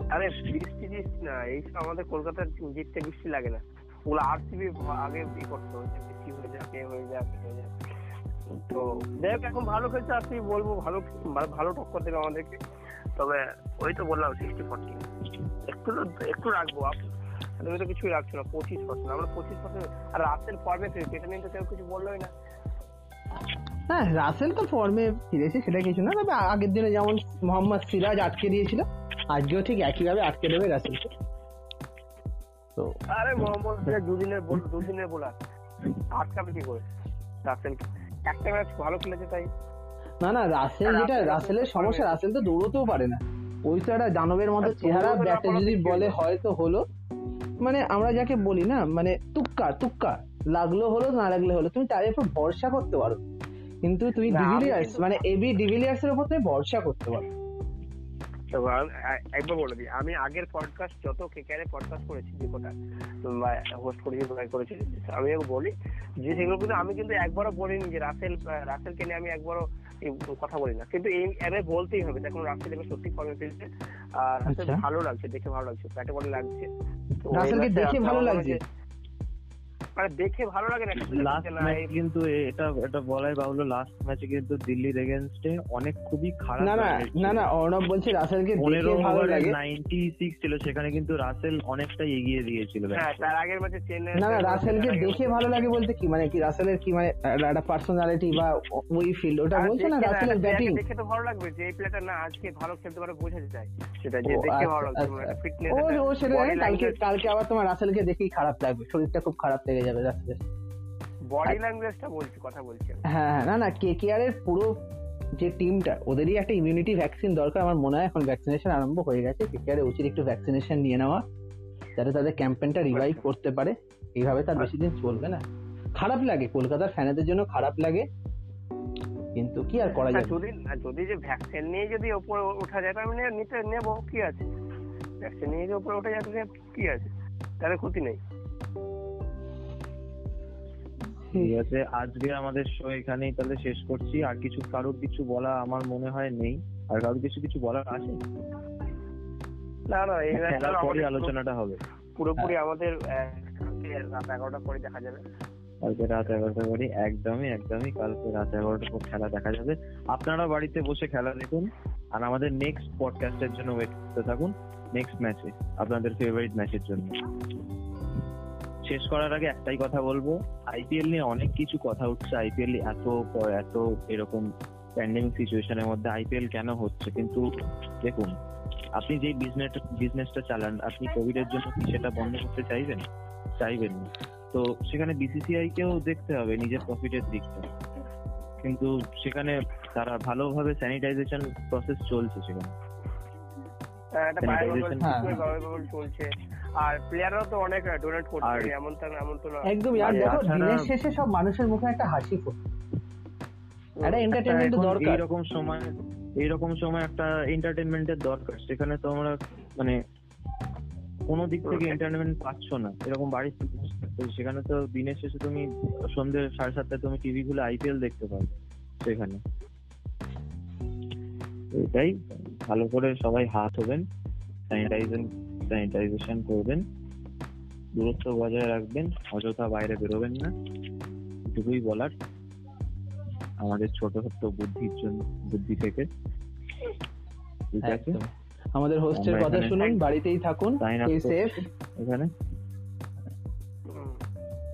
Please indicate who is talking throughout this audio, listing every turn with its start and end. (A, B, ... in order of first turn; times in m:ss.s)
0:00.1-0:07.7 A
0:08.6-0:12.6 A
0:13.2-0:15.0 A
0:15.6-0:17.0 A
0:17.6-0:22.3 A
0:23.9-0:31.1 B
0:33.1-0:35.4 A
0:36.1-0:36.8 A
0:37.4-0:39.5 A
0:40.2-0:46.8 B
0:40.8-0:42.2 A
0:44.6-0:46.1 A
0:47.6-0:53.2 B
0:53.8-0:57.3 B
0:54.3-0:55.2 A
0:58.5-1:02.7 A
1:03.2-1:16.7 A
1:14.5-1:14.8 B
1:17.2-1:18.6 A
1:17.3-1:18.6 B
1:20.0-1:21.9 A
1:21.0-1:27.5 C
1:26.6-1:29.6 B
1:28.6-1:33.0 C
1:32.9-1:35.2 A
1:34.2-1:40.8 B
1:39.5-1:47.0 A
1:44.2-1:50.4 B
1:51.3-1:53.0 A
1:53.0-1:54.8 B
1:55.4-2:01.2 B
2:02.0-2:05.4 B
2:02.9-2:03.2 A
2:06.0-2:08.0 B
2:09.3-2:10.4 B
2:09.9-2:14.5 A
2:15.2-2:17.1 A
2:17.6-2:18.2 A
2:21.3-2:28.2 C
2:29.9-2:31.3 A
2:30.3-2:31.8 C
2:32.2-2:35.2 A
2:35.8-2:47.2 C
2:48.8-2:57.4 C
2:58.0-2:58.3 C
2:58.9-3:03.0 C
3:03.6-3:07.7 C
3:08.6-3:12.7 C
3:14.1-3:20.4 A
3:14.4-3:15.1 C
3:15.0-3:15.4 B
3:18.4-3:18.7 C
3:19.6-3:22.6 B
3:20.0-3:20.9 C
3:24.0-3:25.2 B
3:24.3-3:30.0 C
3:31.3-3:39.4 C
3:31.6-3:32.0 A
3:41.7-3:44.0 C
3:44.7-3:46.8 C
3:47.9-3:50.5 C
3:51.5-3:52.1 C
3:53.6-3:56.1 C
3:57.7-3:58.2 C
3:57.8-4:01.6 B
3:59.1-3:59.8 C
4:00.8-4:01.4 C
4:02.0-4:02.3 C
4:03.9-4:04.2 A